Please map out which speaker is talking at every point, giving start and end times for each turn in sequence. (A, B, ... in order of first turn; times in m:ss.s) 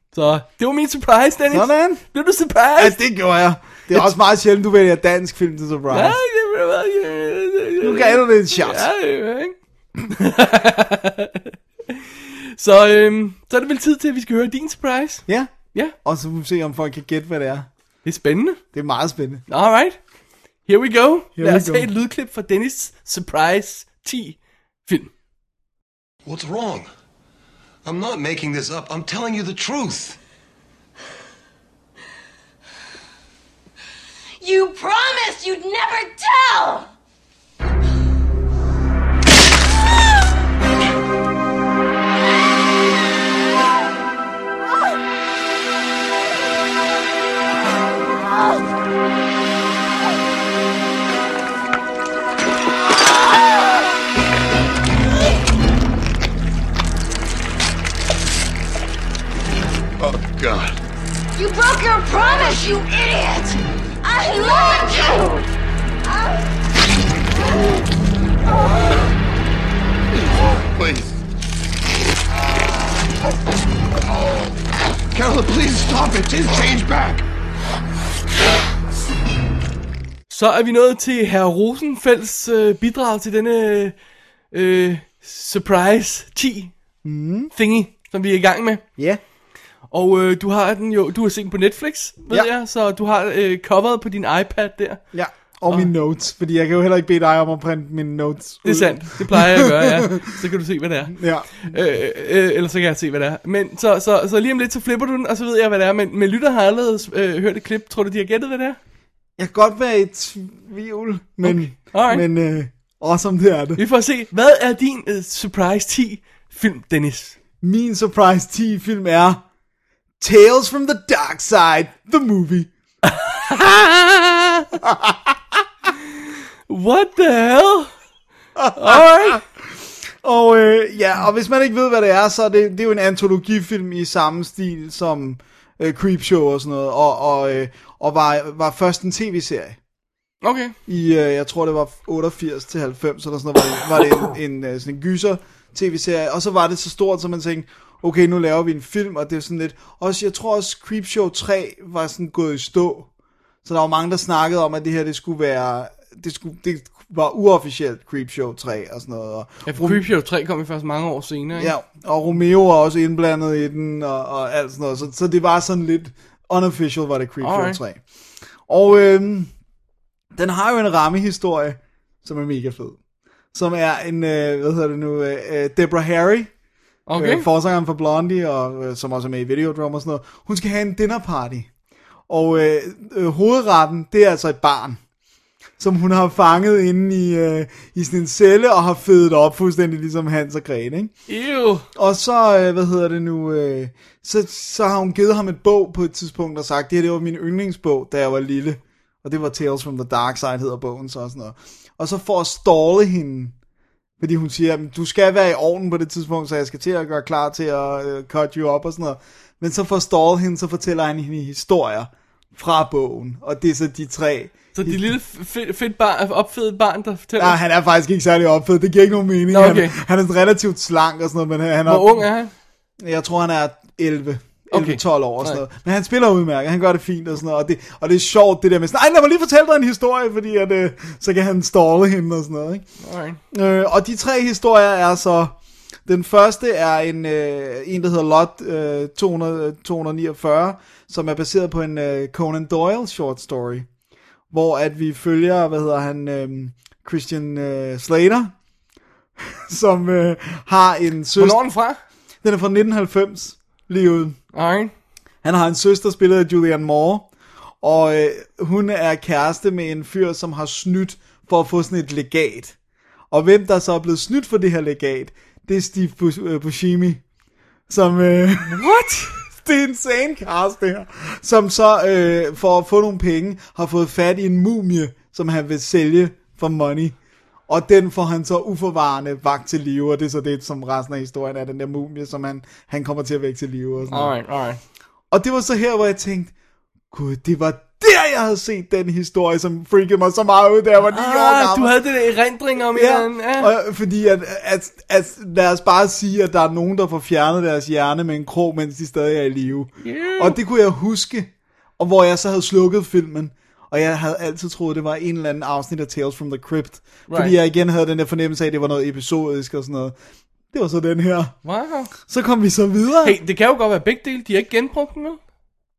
0:00.1-0:03.0 A
0:01.5-0:02.0 B
0:02.8-0:06.2 B
0:05.9-0:09.5 A
0:07.8-0:08.9 B
0:10.0-0:16.0 A
0:15.3-0:17.7 B
0:18.0-0:18.6 A
0:18.7-0:19.4 B
0:19.5-0:20.0 A
0:20.6-0:25.1 A
0:21.4-0:21.9 B
0:26.2-0:26.9 C
0:27.8-0:30.2 C
0:34.4-0:36.9 D
1:00.2-1:00.7 C
1:01.4-1:05.5 D
1:06.1-1:06.4 D
1:10.8-1:11.1 C
1:15.2-1:17.2 C
1:20.3-1:24.0 A
1:24.5-1:26.7 A
1:27.0-1:27.5 B
1:27.5-1:28.8 A
1:29.9-1:35.0 A
1:35.1-1:40.3 B
1:38.6-1:48.8 A
1:41.1-1:41.8 B
1:49.4-1:53.8 B
1:51.4-1:52.2 A
1:53.8-1:57.4 A
1:57.6-1:59.4 B
2:00.2-2:02.7 B
2:03.0-2:04.7 A
2:04.8-2:05.4 B
2:06.7-2:07.9 A
2:08.6-2:19.8 B
2:08.7-2:09.4 A
2:20.4-2:20.8 A
2:20.9-2:33.1 B
2:33.6-2:40.0 B
2:39.7-2:41.7 A
2:41.6-2:48.0 B
2:47.4-2:47.8 A
2:48.7-2:49.5 B
2:50.3-2:53.0 B
2:53.5-2:56.5 B
2:57.1-2:57.5 A
2:57.2-3:01.7 B
3:02.3-3:05.0 B
3:05.8-3:11.1 B
3:11.3-3:11.8 A
3:12.0-3:23.5 B
3:24.2-3:35.1 B
3:34.8-3:37.6 A
3:37.4-3:42.2 B
3:39.5-3:40.0 A
3:41.9-3:42.5 A
3:43.0-3:52.8 B
3:44.7-3:45.6 A
3:53.0-3:53.4 A
3:53.5-4:03.9 B
4:04.5-4:08.5 B
4:09.4-4:11.7 B
4:11.4-4:12.0 A
4:12.4-4:14.4 B
4:14.5-4:14.9 A
4:15.4-4:17.3 B
4:17.8-4:22.8 B
4:23.3-4:27.2 B
4:27.9-4:28.8 B
4:28.7-4:29.4 A
4:29.4-4:37.2 B
4:37.7-4:44.3 B
4:44.1-4:44.8 A
4:45.3-4:46.5 B
4:47.1-4:52.0 B
4:51.1-4:53.7 A
4:52.9-5:10.2 B
5:00.0-5:00.6 A
5:07.3-5:07.5 A
5:10.7-5:11.5 B
5:11.6-5:12.1 A
5:12.2-5:13.4 B
5:13.2-5:15.4 A